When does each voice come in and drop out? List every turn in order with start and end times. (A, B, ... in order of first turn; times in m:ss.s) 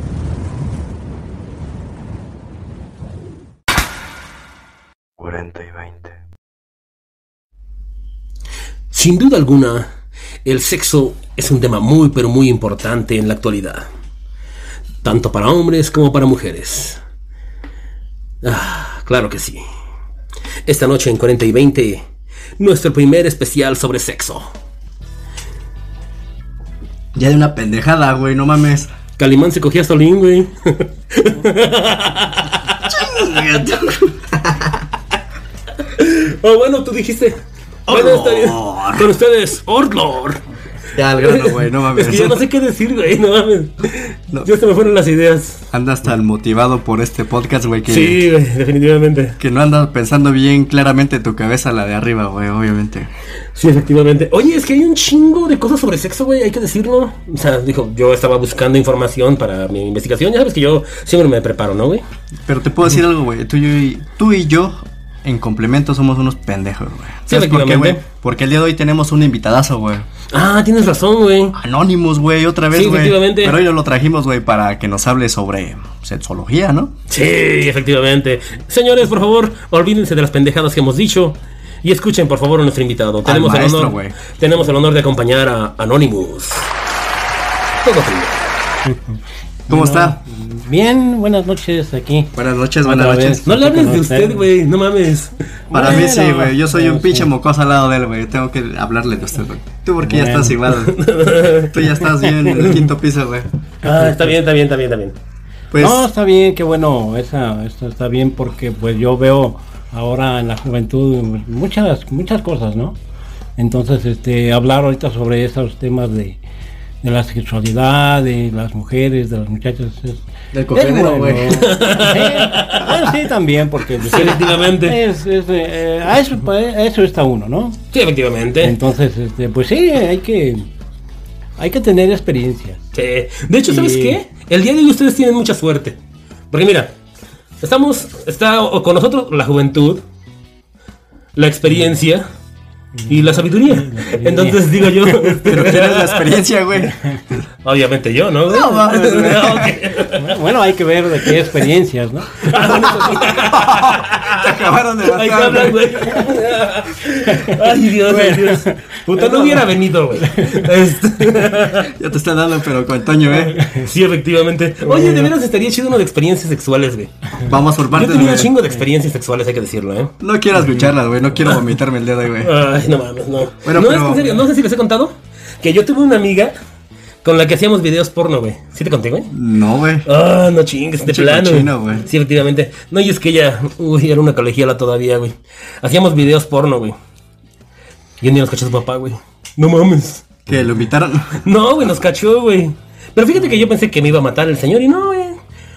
0:05.2-0:06.2 A
0:08.9-0:09.9 B
0:10.4-0:13.9 B
0:15.0-0:17.0 B
0:18.4-0:19.6 B
0:20.7-0:22.0 B
0:22.6-0:24.5 B
0:27.1-0:28.9 A
0:29.2-0:33.3 B
0:32.9-0:34.8 A
0:35.8-0:40.4 B
0:37.9-0:39.1 A
0:40.9-0:42.4 A
0:41.2-0:45.6 B
0:45.7-0:48.2 A
0:47.9-0:49.4 B
0:49.4-0:53.1 A
0:53.5-1:02.0 B
1:02.5-1:10.1 A
1:07.3-1:08.0 B
1:10.3-1:11.6 B
1:11.5-1:16.9 A
1:12.7-1:13.6 B
1:17.1-1:26.7 B
1:23.2-1:24.2 A
1:27.8-1:28.4 B
1:28.8-1:29.2 C
1:29.7-1:34.5 C
1:29.7-1:30.2 A
1:32.3-1:33.4 A
1:33.4-1:35.3 B
1:35.7-1:37.3 C
1:35.7-1:43.5 A
1:40.0-1:40.6 C
1:40.7-1:41.9 B
1:42.6-1:42.8 B
1:43.8-1:45.1 B
1:43.8-1:44.3 C
1:45.7-1:46.1 A
1:45.8-1:53.0 C
1:53.6-1:56.4 C
1:57.0-2:07.8 C
2:00.5-2:01.7 A
2:01.5-2:03.0 B
2:04.0-2:05.0 B
2:07.9-2:08.8 B
2:08.6-2:10.7 C
2:11.6-2:12.8 C
2:12.9-2:16.0 B
2:13.7-2:14.2 C
2:16.5-2:16.9 B
2:17.6-2:20.0 B
2:21.4-2:22.2 B
2:22.9-2:25.5 C
2:23.1-2:26.4 B
2:25.4-2:27.4 A
2:27.6-2:30.4 B
2:28.5-2:29.8 A
2:30.2-2:33.0 C
2:32.4-2:41.9 B
2:33.1-2:35.9 A
2:37.3-2:40.7 C
2:41.8-2:43.6 A
2:43.5-2:43.9 C
2:43.7-2:47.1 B
2:44.8-2:45.3 C
2:47.4-2:48.5 A
2:47.9-2:50.1 B
2:50.2-2:52.5 A
2:52.4-2:56.5 B
2:53.6-2:54.2 A
2:57.2-2:59.3 B
2:59.3-3:00.1 A
3:00.0-3:07.0 B
3:01.0-3:02.0 A
3:08.2-3:10.2 B
3:10.4-3:11.4 A
3:11.4-3:15.4 B